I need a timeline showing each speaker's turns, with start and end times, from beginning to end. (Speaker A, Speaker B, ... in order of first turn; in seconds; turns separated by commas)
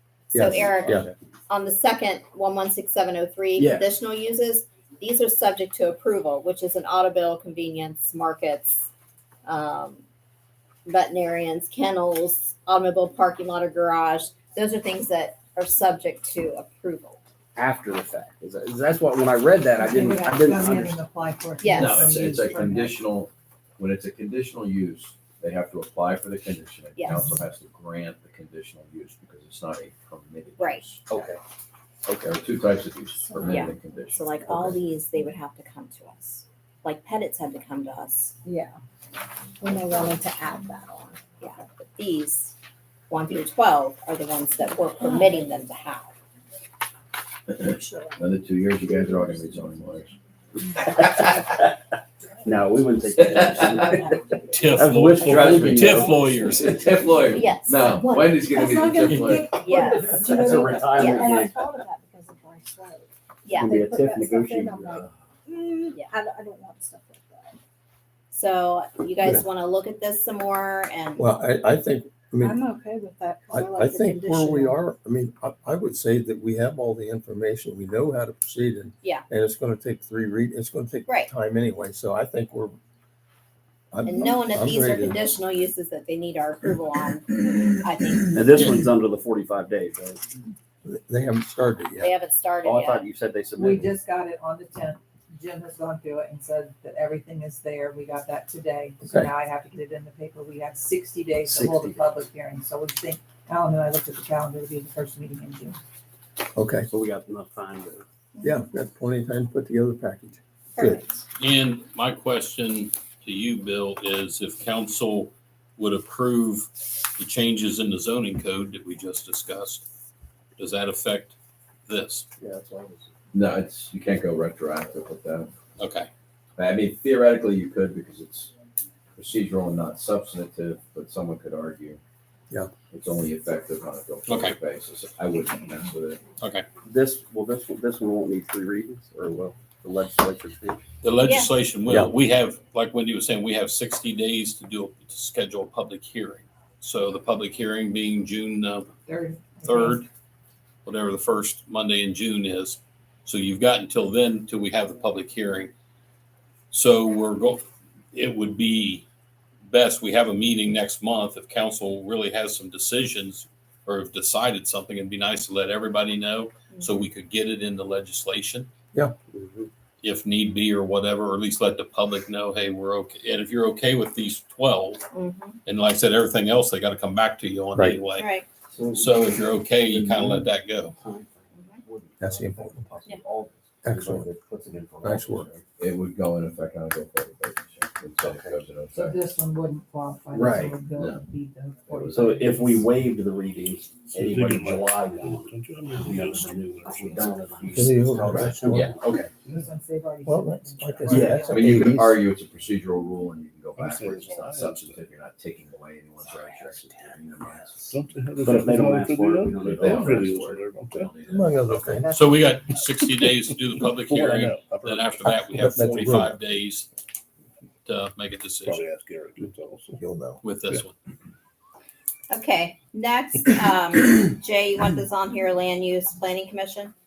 Speaker A: 0.3-8.9, Speaker B: 0.3-1.1, Speaker C: 0.8-1.1, Speaker C: 3.6-3.9, Speaker A: 9.4-10.0, Speaker A: 10.9-17.3, Speaker C: 17.6-21.0, Speaker D: 19.8-23.0, Speaker A: 21.6-22.1, Speaker E: 21.7-31.2, Speaker A: 27.0-27.3, Speaker C: 31.1-31.4, Speaker E: 32.1-34.7, Speaker A: 33.5-38.4, Speaker F: 38.5-38.7, Speaker F: 39.6-41.2, Speaker A: 41.4-42.5, Speaker A: 43.1-46.1, Speaker E: 47.6-50.2, Speaker F: 47.8-48.2, Speaker E: 50.8-51.6, Speaker C: 50.8-51.7, Speaker C: 52.4-56.1, Speaker E: 53.2-53.9, Speaker G: 54.5-56.9, Speaker E: 55.2-59.8, Speaker A: 57.3-58.3, Speaker F: 58.5-67.5, Speaker G: 59.1-59.5, Speaker A: 59.6-61.3, Speaker C: 59.8-61.7, Speaker A: 63.5-63.8, Speaker C: 63.6-65.0, Speaker E: 64.8-65.1, Speaker A: 68.3-71.3, Speaker B: 71.2-72.6, Speaker F: 72.5-74.7, Speaker B: 73.5-82.8, Speaker B: 83.9-85.2, Speaker A: 84.0-88.7, Speaker C: 88.3-90.3, Speaker B: 90.8-92.1, Speaker A: 92.0-93.0, Speaker C: 92.6-93.9, Speaker D: 93.6-105.8, Speaker B: 99.0-99.3, Speaker C: 101.5-102.0, Speaker B: 106.5-106.9, Speaker C: 106.9-108.1, Speaker A: 108.3-108.6, Speaker B: 108.4-111.0, Speaker A: 110.8-111.2, Speaker G: 111.4-119.8, Speaker G: 120.6-121.3, Speaker G: 121.9-122.3, Speaker C: 122.4-123.1, Speaker E: 123.3-125.5, Speaker G: 125.8-126.1, Speaker E: 126.6-128.5, Speaker E: 129.2-132.0, Speaker E: 132.9-136.2, Speaker G: 134.3-134.6, Speaker G: 136.4-136.7, Speaker C: 136.8-140.8, Speaker G: 141.0-148.9, Speaker A: 141.2-141.5, Speaker D: 149.1-150.1, Speaker G: 149.6-150.1, Speaker G: 150.8-155.7, Speaker G: 156.7-157.6, Speaker G: 158.1-159.1, Speaker G: 159.7-168.7, Speaker C: 169.3-169.7, Speaker G: 170.0-175.1, Speaker A: 175.1-175.6, Speaker G: 175.7-178.4, Speaker A: 178.2-178.5, Speaker C: 178.7-185.6, Speaker G: 178.9-180.9, Speaker A: 181.5-181.8, Speaker B: 182.2-182.9, Speaker B: 183.8-184.3, Speaker B: 185.0-185.5, Speaker E: 185.8-189.2, Speaker C: 188.2-188.6, Speaker D: 188.9-192.8, Speaker C: 190.3-190.8, Speaker E: 190.5-191.2, Speaker E: 191.9-192.5, Speaker C: 192.1-199.3, Speaker H: 194.1-197.3, Speaker E: 197.6-198.9, Speaker B: 197.7-199.0, Speaker D: 199.4-201.8, Speaker B: 200.2-202.2, Speaker E: 201.1-207.9, Speaker C: 201.1-201.8, Speaker H: 203.8-205.0, Speaker C: 206.3-210.6, Speaker H: 207.9-211.1, Speaker E: 209.6-211.8, Speaker B: 211.3-212.1, Speaker D: 211.9-212.7, Speaker G: 212.1-216.9, Speaker H: 214.1-215.7, Speaker B: 215.4-216.4, Speaker G: 217.9-218.8, Speaker H: 218.7-220.0, Speaker B: 220.0-220.4, Speaker G: 220.4-220.9, Speaker A: 222.3-226.9